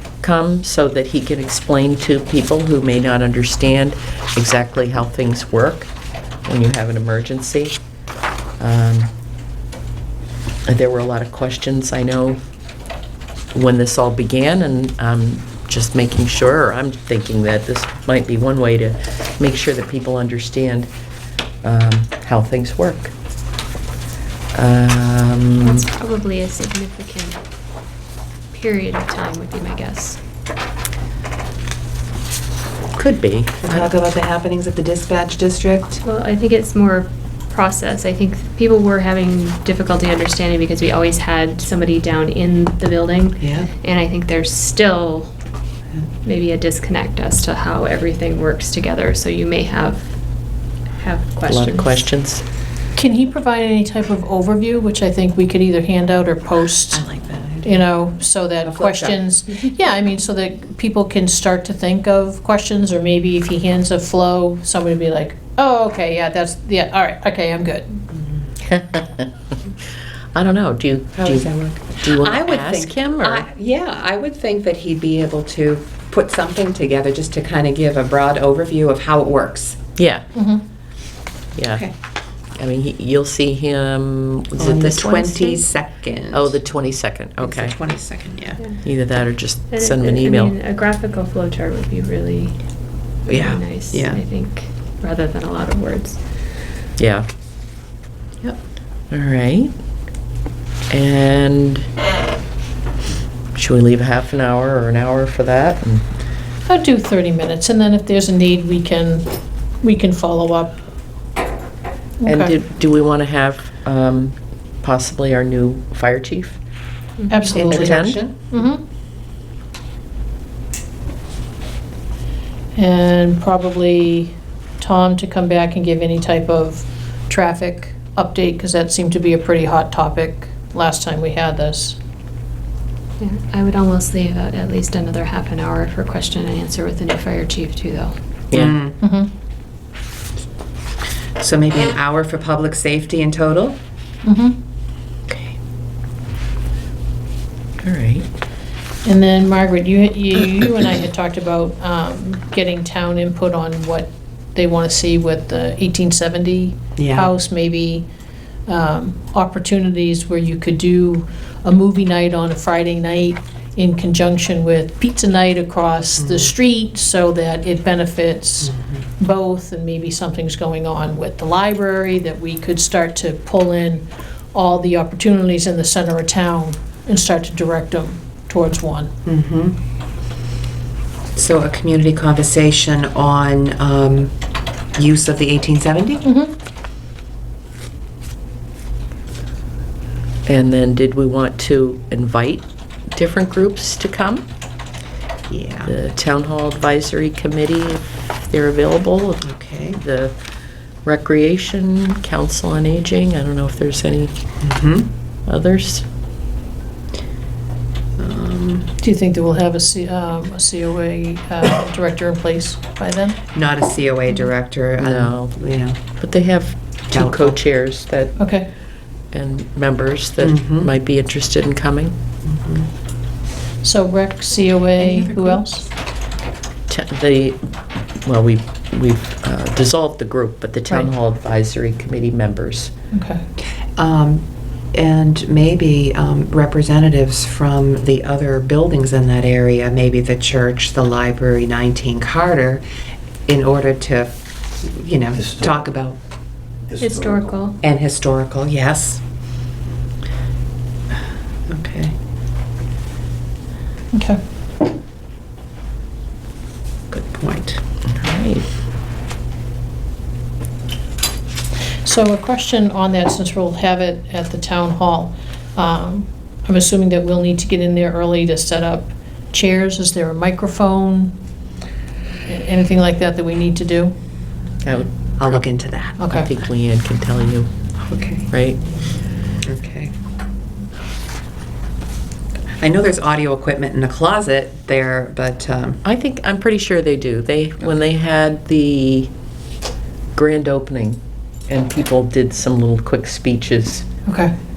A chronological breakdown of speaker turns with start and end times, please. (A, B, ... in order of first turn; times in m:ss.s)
0:00.2-0:05.9 A
0:06.5-0:07.8 A
0:08.6-0:09.1 A
0:10.6-0:12.4 A
0:13.5-0:20.9 A
0:21.6-0:23.1 A
0:24.5-0:25.9 A
0:25.6-0:27.4 B
0:28.5-0:30.2 B
0:32.9-0:33.9 A
0:33.6-0:36.0 C
0:36.0-0:45.3 B
0:43.4-0:43.7 C
0:46.2-0:50.1 B
0:51.0-0:52.1 B
0:51.5-0:52.4 A
0:52.9-0:57.0 D
0:56.9-0:57.8 C
0:57.6-1:08.0 D
0:58.6-0:59.2 C
1:08.6-1:09.3 A
1:10.3-1:13.4 A
1:11.2-1:19.8 C
1:20.0-1:20.3 A
1:20.3-1:20.6 D
1:21.6-1:21.8 A
1:21.7-1:21.9 C
1:22.6-1:25.6 A
1:24.6-1:26.6 C
1:26.3-1:27.8 A
1:27.4-1:28.6 C
1:28.8-1:30.5 A
1:29.7-1:32.6 B
1:33.3-1:34.2 C
1:33.3-1:36.2 B
1:37.0-1:37.3 A
1:39.1-1:39.7 A
1:40.9-1:41.9 A
1:43.5-1:46.0 A
1:46.7-1:49.3 D
1:49.8-1:50.8 D
1:52.2-1:52.5 D
1:52.2-1:56.6 A
1:57.2-1:57.6 B
1:57.3-1:58.8 D
1:57.5-1:58.4 C
1:57.7-1:58.2 A
2:02.7-2:12.0 D
2:13.2-2:18.2 B
2:18.5-2:19.0 C
2:19.0-2:19.3 D
2:21.4-2:23.8 C
2:24.2-2:24.6 D
2:25.3-2:25.6 A
2:27.8-2:28.3 A
2:29.0-2:38.1 D
2:37.0-2:37.3 C
2:38.7-2:59.1 D
2:46.2-2:46.5 C
2:59.2-2:59.8 C
3:01.3-3:04.3 C
3:04.9-3:06.2 C
3:06.2-3:06.5 D
3:10.4-3:14.4 A
3:15.5-3:15.9 C
3:15.8-3:20.3 A
3:19.4-3:20.0 C
3:21.0-3:24.3 A
3:24.6-3:25.1 C
3:25.5-3:26.1 A
3:28.2-3:28.9 C
3:29.0-3:33.4 D
3:33.5-3:36.0 C
3:35.0-3:35.5 A
3:36.2-3:38.4 A
3:37.1-3:37.6 C
3:38.4-3:38.7 D
3:39.3-3:42.2 A
3:40.4-3:40.9 C
3:42.4-3:42.9 C
3:43.8-3:45.9 D
3:45.3-3:45.5 B
3:46.9-3:52.9 A
3:53.1-3:53.4 D
3:54.0-4:02.8 C
4:03.5-4:06.2 C
4:07.0-4:07.8 B
4:07.8-4:09.2 C
4:11.7-4:12.1 C
4:14.1-4:14.4 D
4:17.1-4:17.8 C
4:18.1-4:18.7 A
4:22.0-4:31.3 D
4:32.5-4:34.1 D
4:34.8-4:35.6 A
4:35.4-4:36.2 C
4:36.2-4:37.7 A
4:36.2-4:36.5 D
4:38.1-4:38.5 C
4:38.5-4:38.8 A
4:39.6-4:40.1 C
4:42.8-4:46.0 C
4:46.0-4:49.3 A
4:50.4-4:54.1 A
4:54.3-4:54.5 D